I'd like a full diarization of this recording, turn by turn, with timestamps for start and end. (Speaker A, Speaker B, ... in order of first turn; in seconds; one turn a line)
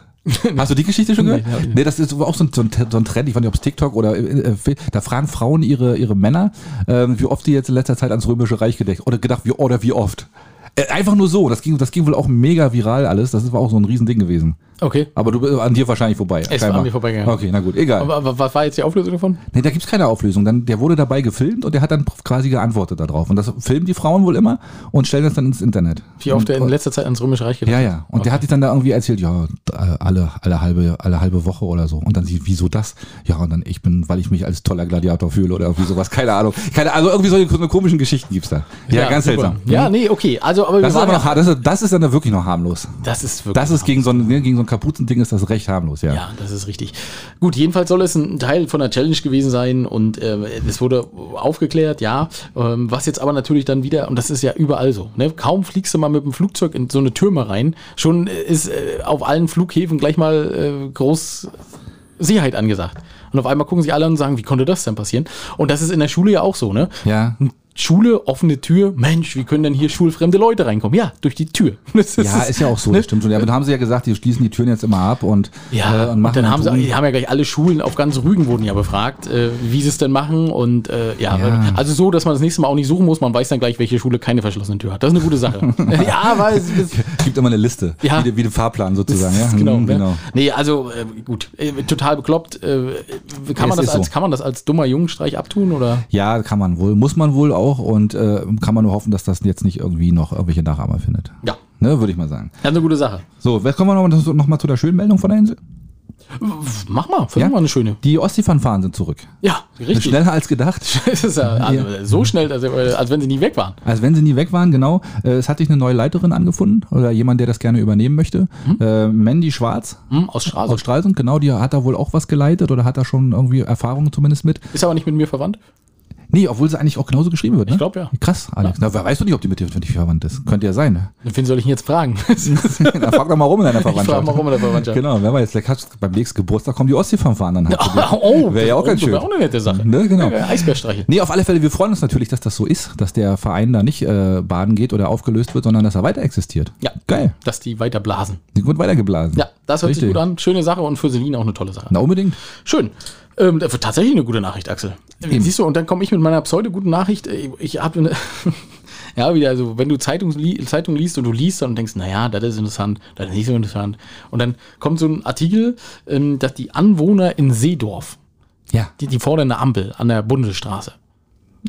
Speaker A: 0.3-1.8
Speaker B: 0.5-14.6
Speaker A: 14.8-15.1
Speaker B: 15.2-18.1
Speaker A: 16.5-17.4
Speaker A: 18.0-19.4
Speaker B: 19.5-26.7
Speaker A: 26.2-28.4
Speaker B: 27.7-39.9
Speaker A: 38.9-41.4
Speaker B: 40.8-43.0
Speaker A: 43.0-44.3
Speaker B: 43.5-46.2
Speaker A: 46.1-61.6
Speaker A: 62.2-73.5
Speaker B: 67.0-67.4
Speaker B: 72.2-76.9
Speaker A: 75.7-87.0
Speaker B: 81.3-81.8
Speaker B: 85.7-90.2
Speaker A: 88.0-88.3
Speaker A: 89.1-96.1
Speaker B: 93.6-94.1
Speaker B: 96.1-102.6
Speaker A: 102.6-103.2
Speaker B: 103.4-105.6
Speaker A: 106.3-108.0
Speaker B: 107.4-109.3
Speaker A: 109.4-110.2
Speaker B: 109.9-111.9
Speaker A: 110.8-113.8
Speaker B: 113.8-120.0
Speaker A: 120.1-120.8
Speaker B: 120.6-124.7
Speaker A: 124.7-125.6
Speaker B: 126.3-131.1
Speaker A: 127.7-128.1
Speaker A: 131.2-135.0
Speaker B: 132.4-147.3
Speaker A: 137.7-141.1
Speaker A: 146.8-148.4
Speaker B: 148.6-150.2
Speaker A: 149.3-152.0
Speaker B: 151.9-152.4
Speaker A: 152.6-168.2
Speaker B: 155.3-155.5
Speaker A: 169.0-170.9